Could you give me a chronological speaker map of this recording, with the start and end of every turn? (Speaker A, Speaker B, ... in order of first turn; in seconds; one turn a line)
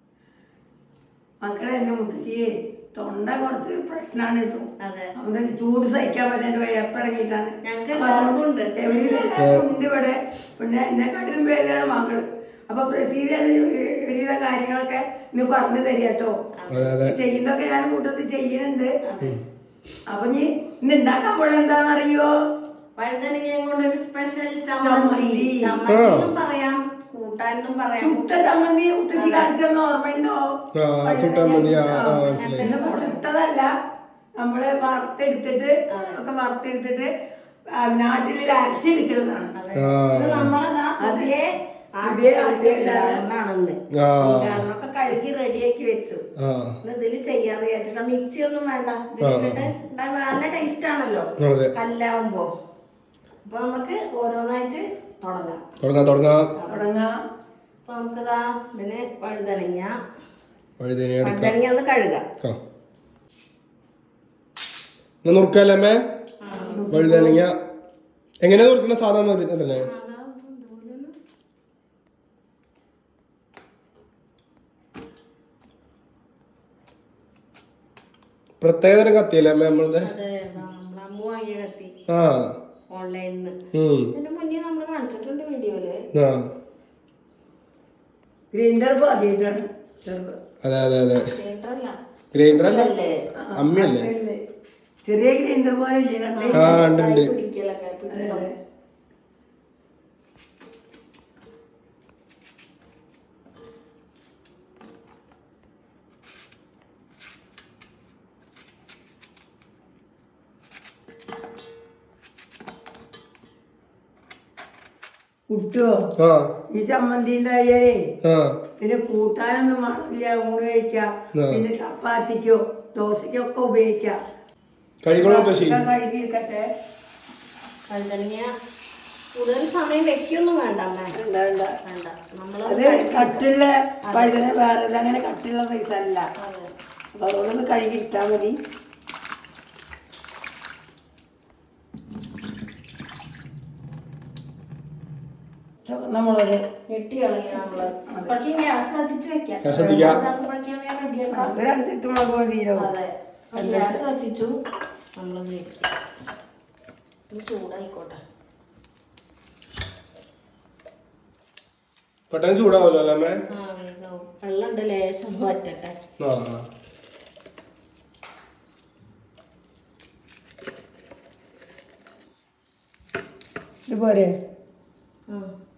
Speaker A: 1.4-4.7
Speaker B: 4.8-5.1
Speaker A: 5.2-16.3
Speaker B: 7.6-9.3
Speaker C: 9.4-9.6
Speaker B: 16.6-16.9
Speaker C: 16.7-17.1
Speaker A: 16.9-18.9
Speaker B: 19.0-19.4
Speaker A: 20.1-22.3
Speaker B: 23.0-28.4
Speaker A: 24.8-25.8
Speaker C: 25.9-26.3
Speaker A: 28.0-33.7
Speaker B: 29.1-29.5
Speaker C: 30.8-32.7
Speaker B: 32.4-33.2
Speaker A: 34.4-37.1
Speaker B: 35.9-36.2
Speaker A: 37.7-39.5
Speaker B: 39.5-46.2
Speaker C: 39.8-40.5
Speaker A: 41.0-41.3
Speaker A: 42.0-43.2
Speaker C: 43.9-44.6
Speaker C: 46.4-46.8
Speaker B: 46.8-52.5
Speaker C: 49.2-49.7
Speaker C: 51.4-51.7
Speaker B: 53.4-55.6
Speaker C: 55.8-56.5
Speaker B: 56.5-56.8
Speaker A: 56.7-57.1
Speaker B: 57.8-59.9
Speaker C: 60.8-61.5
Speaker B: 61.2-62.2
Speaker C: 65.2-66.0
Speaker B: 66.4-66.9
Speaker A: 66.5-67.4
Speaker C: 66.9-67.5
Speaker C: 68.4-69.9
Speaker B: 69.7-71.1
Speaker C: 78.6-80.1
Speaker B: 80.0-81.9
Speaker C: 82.1-82.5
Speaker B: 82.9-83.5
Speaker C: 83.7-84.1
Speaker B: 84.1-86.0
Speaker C: 86.1-86.5
Speaker A: 88.5-90.3
Speaker C: 90.6-91.3
Speaker B: 91.3-92.0
Speaker C: 92.3-92.9
Speaker B: 92.5-93.2
Speaker A: 93.4-94.4
Speaker C: 93.5-94.1
Speaker A: 95.0-96.8
Speaker B: 96.3-98.5
Speaker C: 96.5-97.3
Speaker A: 98.1-98.5
Speaker A: 115.5-115.9
Speaker C: 116.2-116.5
Speaker A: 116.7-118.0
Speaker C: 118.2-118.5
Speaker A: 118.8-124.2
Speaker C: 121.4-121.6
Speaker C: 125.0-125.8
Speaker A: 125.2-126.6
Speaker B: 127.9-128.5
Speaker B: 129.3-131.1
Speaker A: 131.1-131.7
Speaker B: 131.8-133.4
Speaker A: 132.7-136.3
Speaker B: 134.1-134.4
Speaker B: 136.4-136.7
Speaker A: 137.1-138.6
Speaker A: 145.8-146.6
Speaker B: 146.9-151.5
Speaker A: 147.7-148.3
Speaker C: 149.6-150.2
Speaker A: 149.7-150.2
Speaker A: 151.3-152.9
Speaker B: 152.8-154.5
Speaker A: 153.6-154.0
Speaker B: 155.2-155.8
Speaker B: 157.3-158.2
Speaker C: 162.3-163.4
Speaker B: 163.5-165.9
Speaker C: 166.2-166.6
Speaker A: 173.9-174.3